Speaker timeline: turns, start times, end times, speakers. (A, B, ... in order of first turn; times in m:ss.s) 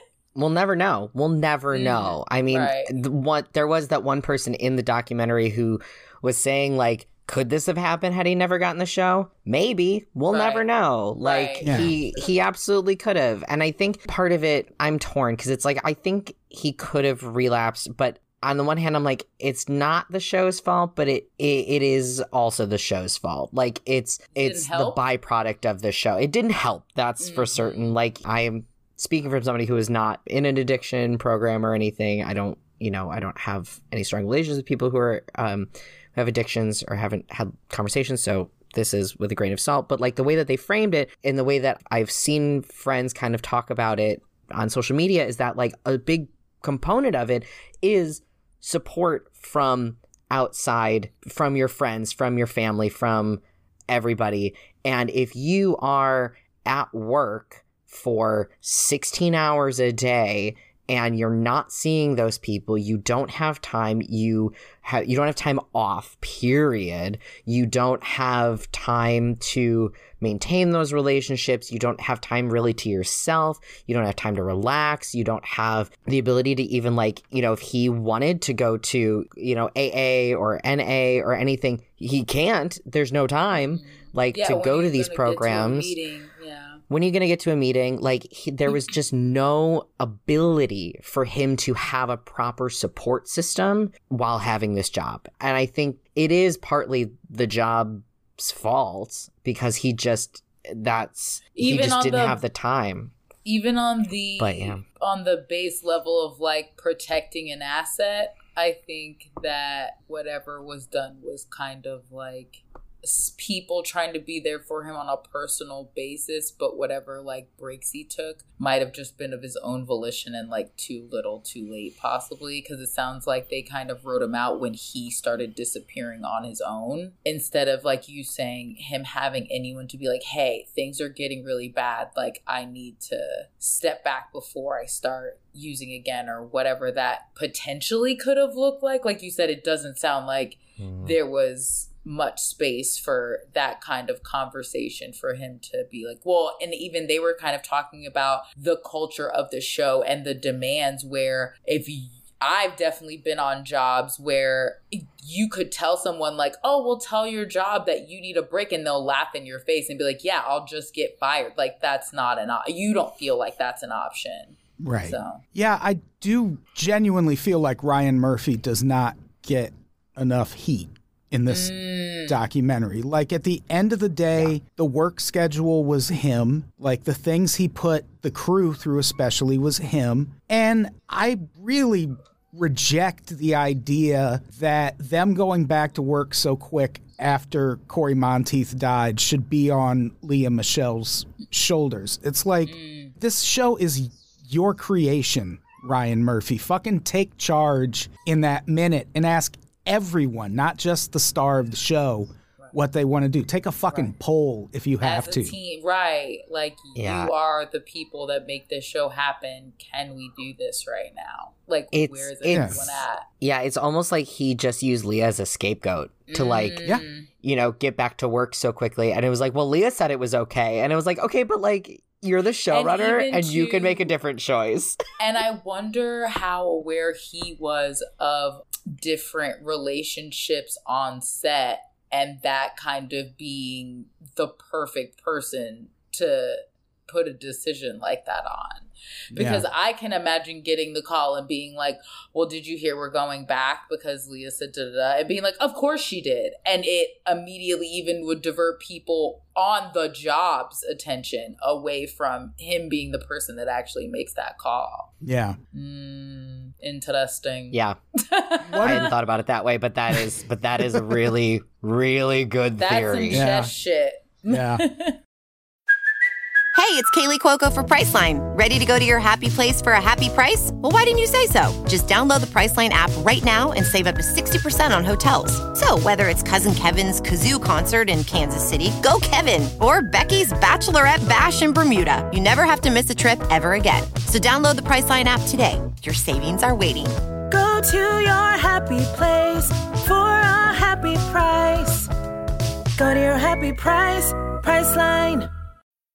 0:00.3-1:26.0 A
0:01.7-0:02.9 B
0:10.3-0:10.6 B
0:11.2-0:12.3 B
0:11.6-0:11.9 C
0:24.3-0:25.0 B
0:27.2-0:28.0 B
1:23.6-1:26.8 B
1:26.9-1:43.1 A
1:41.6-1:42.4 B
1:43.4-2:45.4 B
1:44.4-1:44.8 A
2:20.8-2:21.2 A
2:44.8-2:51.7 C
2:51.5-2:52.4 B
2:52.2-3:25.5 C
3:12.7-3:13.1 B
3:25.0-3:33.2 B
3:27.0-3:27.3 A
3:31.9-3:36.8 A
3:32.5-3:32.8 C
3:36.3-3:37.3 B
3:37.4-3:45.0 A
3:42.7-3:44.1 B
3:45.2-4:15.1 B
3:59.3-3:59.6 C
4:15.2-4:15.6 C
4:15.7-4:19.1 B
4:17.7-4:18.0 A
4:18.7-4:19.1 C
4:18.8-4:23.4 A
4:22.8-4:25.2 B
4:23.3-4:23.7 C
4:24.5-4:24.8 C
4:26.7-4:47.2 D
4:47.5-4:52.1 E
4:53.0-4:55.5 E